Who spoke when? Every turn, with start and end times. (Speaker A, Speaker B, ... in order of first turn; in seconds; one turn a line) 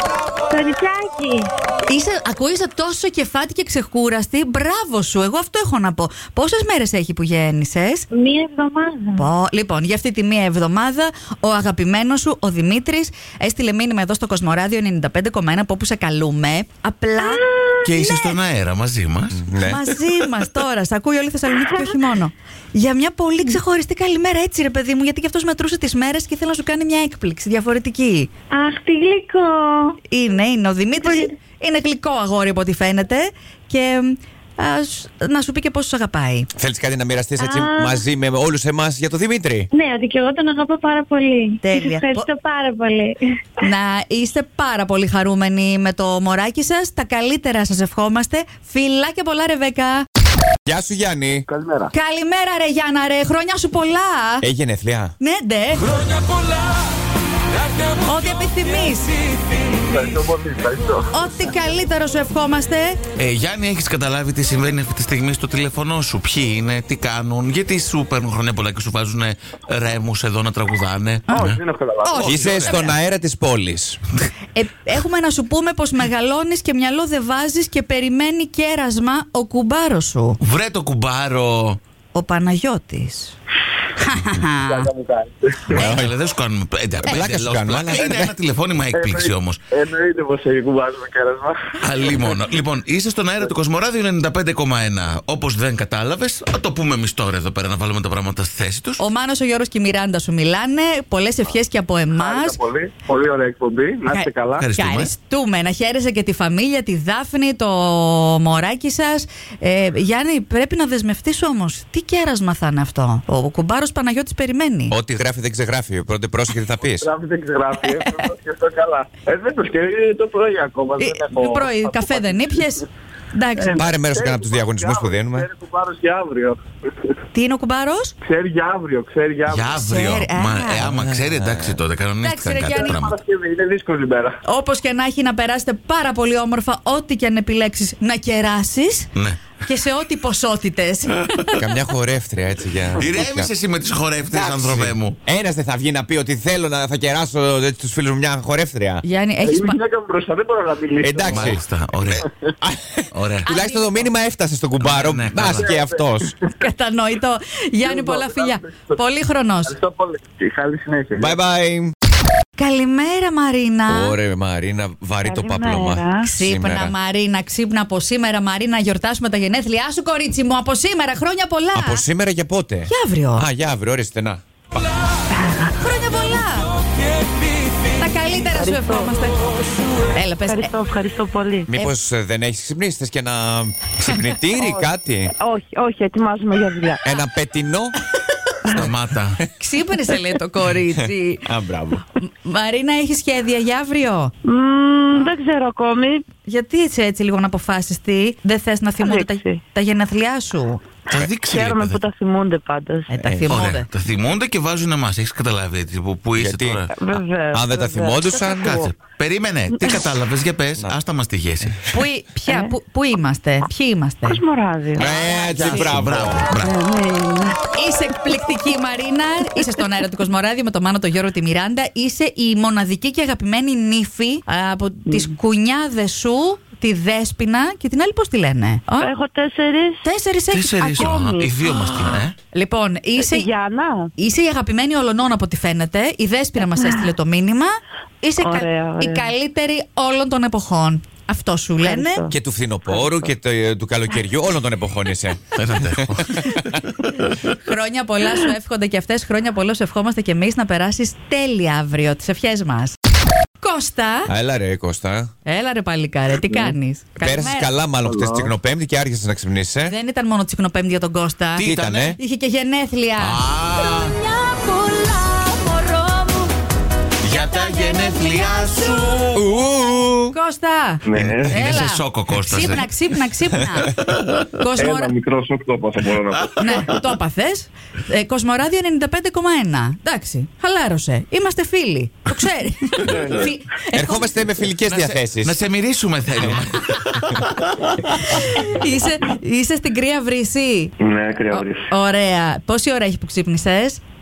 Speaker A: 0.5-1.5
Speaker B: 1.9-8.1
Speaker A: 8.1-9.3
Speaker B: 9.2-17.4
Speaker A: 17.2-18.3
Speaker C: 17.8-19.4
Speaker D: 19.3-19.8
Speaker B: 19.6-28.3
Speaker A: 21.6-22.0
Speaker A: 28.5-30.0
Speaker B: 30.1-36.5
Speaker D: 36.6-39.7
Speaker A: 37.4-38.0
Speaker A: 39.7-43.4
Speaker B: 41.6-42.3
Speaker B: 43.6-50.0
Speaker D: 50.6-51.4
Speaker E: 51.5-51.9
Speaker B: 51.9-54.5
Speaker D: 54.4-55.1
Speaker B: 55.2-56.0
Speaker B: 58.0-59.1
Speaker E: 59.8-61.1
Speaker B: 61.1-63.0
Speaker C: 63.1-71.6
Speaker E: 71.3-72.4
Speaker B: 72.0-72.9
Speaker C: 72.2-73.0
Speaker D: 72.2-74.0
Speaker B: 74.5-80.4
Speaker C: 80.4-81.8
Speaker B: 82.1-83.3
Speaker B: 84.0-84.9
Speaker E: 84.6-85.8
Speaker D: 85.7-86.1
Speaker C: 85.7-89.6
Speaker D: 87.0-88.3
Speaker E: 88.9-91.6
Speaker C: 91.8-99.0
Speaker B: 99.0-102.6
Speaker E: 102.2-104.7
Speaker B: 104.1-115.0
Speaker C: 104.5-105.1
Speaker D: 114.9-117.1
Speaker E: 116.8-122.6
Speaker B: 117.8-118.3
Speaker B: 121.0-123.9
Speaker E: 123.5-126.6
Speaker D: 123.8-125.5
Speaker B: 127.3-128.1
Speaker E: 128.2-129.8
Speaker C: 129.5-133.2
Speaker B: 129.8-130.9
Speaker D: 130.8-131.8
Speaker B: 132.2-133.0
Speaker E: 132.7-134.4
Speaker B: 134.4-139.1
Speaker C: 139.1-139.4
Speaker B: 139.6-141.6
Speaker D: 141.6-143.5
Speaker C: 142.9-145.2
Speaker D: 144.3-149.0
Speaker B: 149.0-149.8
Speaker E: 149.4-151.6
Speaker D: 151.0-151.6
Speaker C: 151.3-152.3
Speaker D: 152.6-156.4
Speaker C: 153.1-153.5
Speaker B: 153.4-154.1
Speaker C: 154.8-155.8
Speaker E: 155.6-156.0
Speaker B: 156.6-159.7
Speaker E: 157.8-159.0
Speaker E: 159.7-161.4
Speaker D: 161.2-161.9
Speaker B: 162.6-164.2
Speaker D: 163.9-166.9
Speaker A: 165.3-165.8
Speaker B: 166.2-172.0
Speaker D: 171.7-174.9
Speaker B: 172.9-173.5
Speaker B: 175.8-176.7
Speaker B: 177.9-179.5
Speaker F: 178.6-179.1
Speaker B: 180.0-180.7
Speaker F: 180.5-181.7
Speaker D: 181.7-185.3
Speaker F: 185.5-187.0
Speaker D: 187.0-187.9
Speaker C: 188.6-189.4
Speaker B: 189.6-191.4
Speaker D: 190.9-192.0
Speaker B: 192.1-194.3
Speaker F: 194.6-196.2
Speaker B: 196.5-200.8
Speaker F: 199.1-199.6
Speaker C: 201.1-202.0
Speaker F: 201.5-202.9
Speaker B: 203.1-203.9
Speaker D: 203.2-203.8
Speaker C: 203.5-206.9
Speaker D: 206.4-208.9
Speaker F: 206.9-208.5
Speaker C: 208.5-211.9
Speaker B: 211.9-214.4
Speaker F: 214.3-215.0
Speaker D: 214.9-216.5
Speaker B: 215.0-215.9
Speaker C: 215.5-216.8
Speaker A: 217.1-217.5
Speaker B: 217.7-229.1
Speaker F: 229.0-229.9
Speaker B: 230.0-231.1
Speaker C: 230.5-232.3
Speaker F: 230.9-231.5
Speaker B: 232.5-233.5
Speaker F: 233.2-234.1
Speaker B: 234.2-242.2
Speaker F: 238.4-239.2
Speaker F: 241.8-242.2
Speaker D: 242.3-246.8
Speaker C: 245.5-247.4
Speaker B: 247.6-253.0
Speaker B: 253.6-254.3
Speaker D: 254.3-255.3
Speaker B: 255.4-257.7
Speaker D: 257.2-259.9
Speaker E: 258.0-258.5
Speaker B: 259.9-261.7
Speaker C: 261.6-262.2
Speaker D: 261.6-262.2
Speaker B: 262.2-266.5
Speaker C: 263.2-264.1
Speaker C: 267.2-269.4
Speaker B: 267.3-269.0
Speaker D: 269.3-270.3
Speaker B: 270.3-274.0
Speaker E: 271.1-271.8
Speaker C: 271.1-272.9
Speaker C: 274.1-274.4
Speaker B: 274.6-275.1
Speaker E: 274.8-277.0
Speaker C: 276.4-276.9
Speaker B: 276.6-284.4
Speaker E: 283.0-283.6
Speaker D: 283.9-285.5
Speaker C: 284.9-287.9
Speaker B: 288.1-290.9
Speaker E: 291.0-291.9
Speaker B: 291.5-294.0